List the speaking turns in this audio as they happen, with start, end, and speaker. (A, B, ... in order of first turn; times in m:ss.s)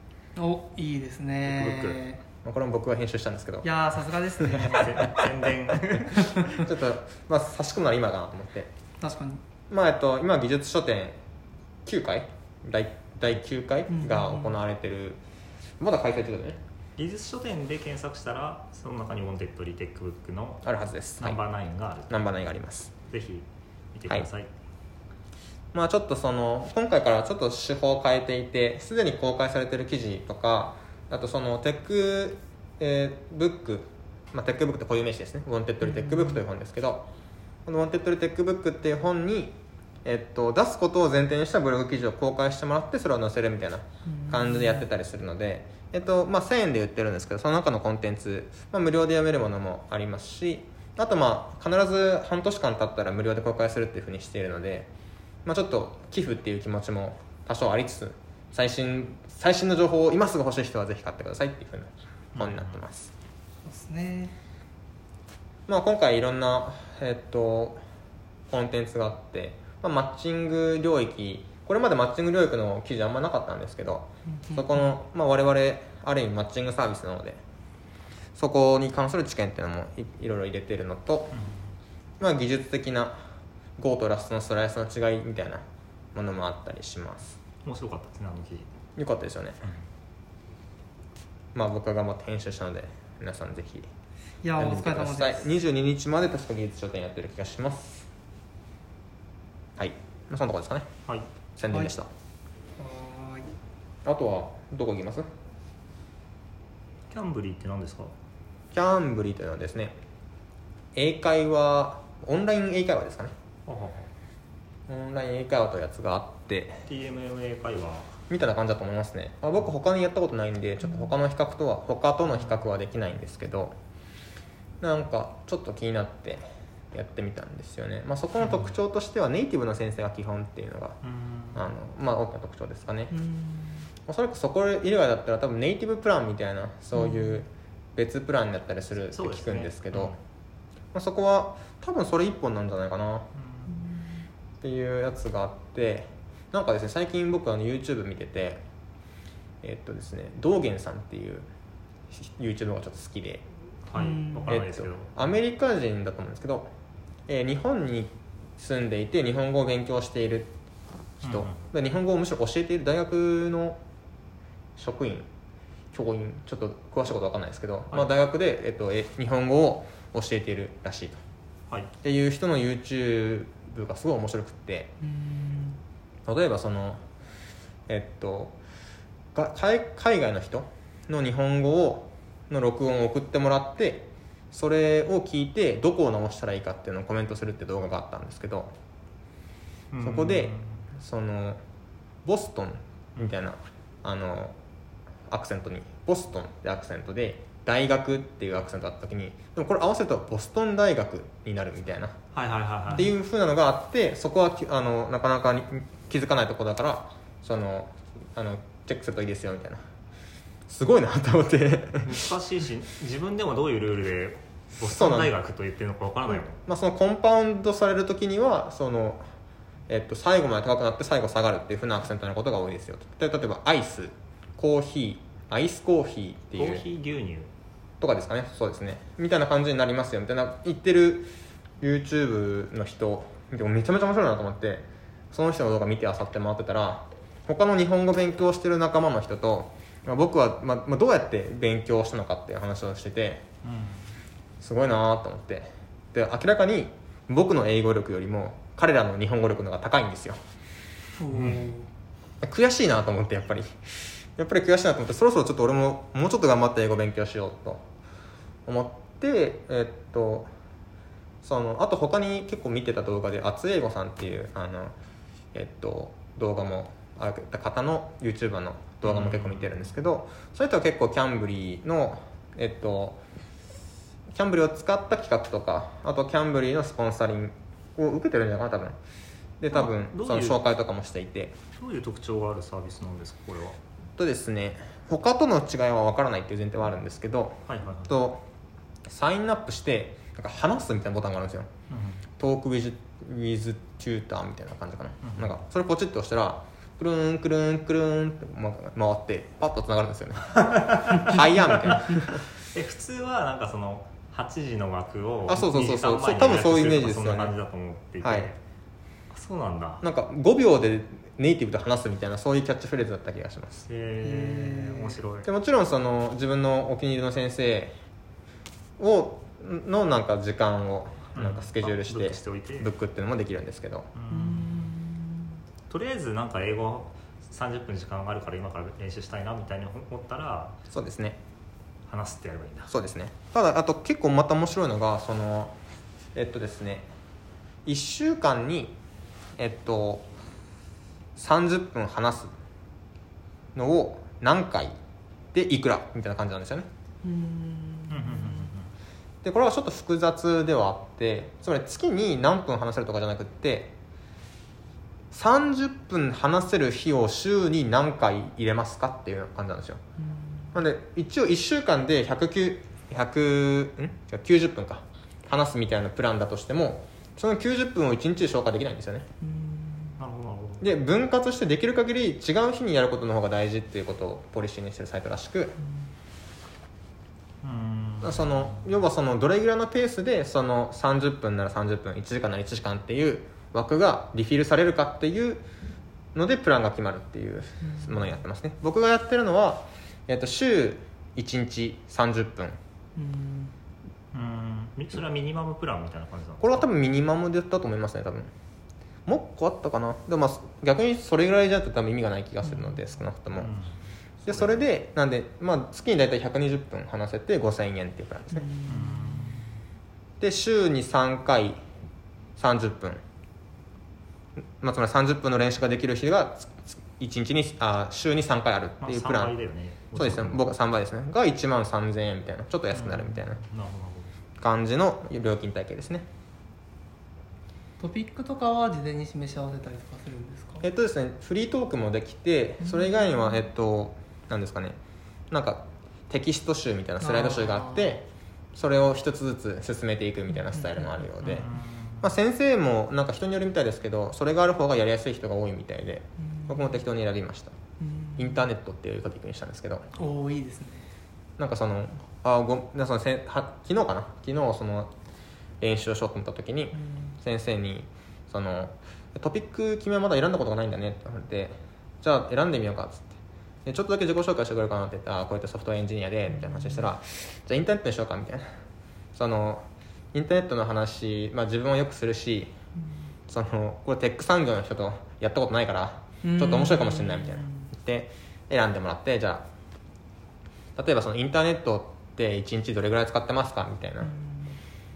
0:00.4-0:02.2 A
0:01.5-0:02.0 B
0:02.4-0:03.7 C
0:03.6-0:05.3 A
0:04.5-0:06.4 B
0:05.9-0:06.6 A
0:06.5-0:08.7 C
0:09.0-0:09.4 A
0:09.7-0:11.2 C
0:11.8-0:15.2 C
0:13.9-0:14.6 A
0:15.8-0:16.6 C
0:17.0-0:20.6 B
0:20.6-0:21.4 C
0:21.2-0:22.1 B
0:22.1-0:22.9 C
0:23.1-0:24.5 B
0:25.7-0:37.1 C
0:35.8-0:36.4 A
0:37.7-0:54.9 C
0:44.1-0:44.9 A
0:55.4-1:03.1 C
1:02.4-1:02.8 B
1:03.6-1:04.4 A
1:05.7-1:07.8 C
1:08.5-1:17.4 C
1:14.3-1:14.8 A
1:18.4-1:21.4 C
1:21.3-1:21.6 B
1:22.2-1:23.2 C
1:23.8-1:25.6 C
1:26.2-1:27.4 C
1:27.6-1:28.7 B
1:29.0-1:29.6 C
1:31.6-1:33.9 C
1:34.4-1:35.5 A
1:34.6-1:38.1 C
1:39.8-1:40.9 C
1:41.6-1:42.1 C
1:42.8-1:43.5 A
1:44.0-1:45.3 C
1:47.1-1:48.1 B
1:48.7-1:49.9 C
1:51.0-1:53.3 C
1:53.7-1:54.1 B
1:54.9-1:56.8 C
1:56.9-1:58.2 B
1:58.3-2:03.7 C
2:04.8-2:11.0 C
2:08.4-2:08.8 B
2:11.0-2:11.7 B
2:11.6-2:13.2 C
2:13.1-2:13.9 A
2:14.1-2:20.2 C
2:17.0-2:17.4 A
2:19.1-2:20.2 B
2:20.9-2:23.3 C
2:23.4-2:23.7 B
2:23.7-2:24.1 A
2:24.6-2:28.6 C
2:29.6-2:31.5 C
2:32.1-2:33.4 C
2:33.9-2:35.3 B
2:34.0-2:34.5 A
2:34.5-2:36.7 C
2:37.3-2:40.5 C
2:41.2-2:43.8 C
2:41.2-2:41.6 B
2:44.8-2:45.3 C
2:45.9-2:51.2 C
2:52.0-2:54.9 C
2:55.0-2:55.8 A
2:56.3-2:57.0 C
2:57.9-2:58.6 C
2:59.3-3:08.7 C
3:09.9-3:10.8 B
3:10.0-3:11.6 C
3:12.2-3:14.6 C
3:15.3-3:22.2 C
3:22.3-3:23.1 B
3:22.9-3:29.8 C
3:30.7-3:32.2 C
3:32.0-3:36.6 B
3:34.8-3:35.3 C
3:36.6-3:39.2 C
3:39.9-3:46.8 C
3:46.6-3:47.5 B
3:48.0-4:03.4 C
4:03.6-4:04.1 B
4:04.6-4:10.4 C
4:11.2-4:11.9 A
4:11.3-4:11.6 B
4:12.4-4:13.8 C
4:14.4-4:17.8 C
4:18.7-4:20.5 C
4:21.4-4:24.9 C
4:25.5-4:33.2 C
4:29.0-4:29.8 B
4:34.4-4:39.0 C
4:39.6-4:41.6 C
4:39.7-4:40.6 B
4:41.8-4:43.8 B
4:44.2-4:48.4 C
4:47.7-4:48.1 B
4:49.1-4:51.7 C
4:51.9-4:52.2 B
4:52.4-5:02.3 C
4:55.2-4:55.6 B
5:00.9-5:08.6 B
5:05.5-5:07.5 C
5:08.2-5:08.5 C
5:09.3-5:10.0 B
5:10.0-5:13.9 C
5:13.9-5:15.5 B
5:14.2-5:15.2 A
5:15.4-5:18.0 C
5:19.0-5:24.1 C
5:21.4-5:22.9 B
5:24.2-5:25.0 B
5:24.3-5:25.5 A
5:25.9-5:30.8 B
5:30.9-5:31.4 C
5:32.1-5:32.9 B
5:32.9-5:35.7 C
5:36.4-5:37.1 C
5:37.8-5:39.0 C
5:39.6-5:40.3 C
5:41.4-5:42.5 C
5:43.8-5:45.0 C
5:45.5-5:46.9 C
5:47.2-5:48.7 A
5:48.1-5:48.9 B
5:49.4-5:53.9 C
5:55.3-6:00.0 C
6:00.2-6:00.7 A
6:00.7-6:09.3 C
6:09.4-6:10.2 A
6:10.2-6:10.9 B
6:10.8-6:15.8 C
6:17.6-6:18.9 B
6:18.2-6:25.6 C
6:26.4-6:32.8 C
6:27.8-6:28.3 A
6:33.2-6:33.7 A
6:34.3-6:36.9 B
6:36.6-6:38.5 C
6:39.3-6:43.7 C
6:43.6-6:44.0 B
6:44.4-6:48.7 C
6:44.5-6:44.8 B
6:48.6-6:49.6 A
6:48.8-6:49.7 B
6:50.4-6:51.8 C
6:52.6-6:53.2 C
6:54.8-6:59.6 C
6:59.0-7:00.6 B
7:00.2-7:03.6 C
7:02.9-7:04.4 B
7:04.6-7:06.3 C
7:08.0-7:10.9 A
7:10.8-7:15.0 C
7:12.8-7:13.6 A
7:15.5-7:21.7 C
7:17.2-7:18.2 A
7:20.5-7:21.5 A
7:21.4-7:22.3 B
7:22.2-7:27.8 C
7:26.4-7:27.0 A
7:28.0-7:28.7 A
7:28.4-7:30.1 C
7:30.1-7:31.1 A
7:31.6-7:35.1 C
7:35.8-7:43.4 C
7:37.0-7:37.3 A
7:43.9-7:48.7 C
7:46.5-7:47.1 A
7:49.4-7:52.8 C
7:53.5-7:59.7 C
7:56.4-7:57.9 A
8:01.0-8:04.3 C
8:04.2-8:04.8 A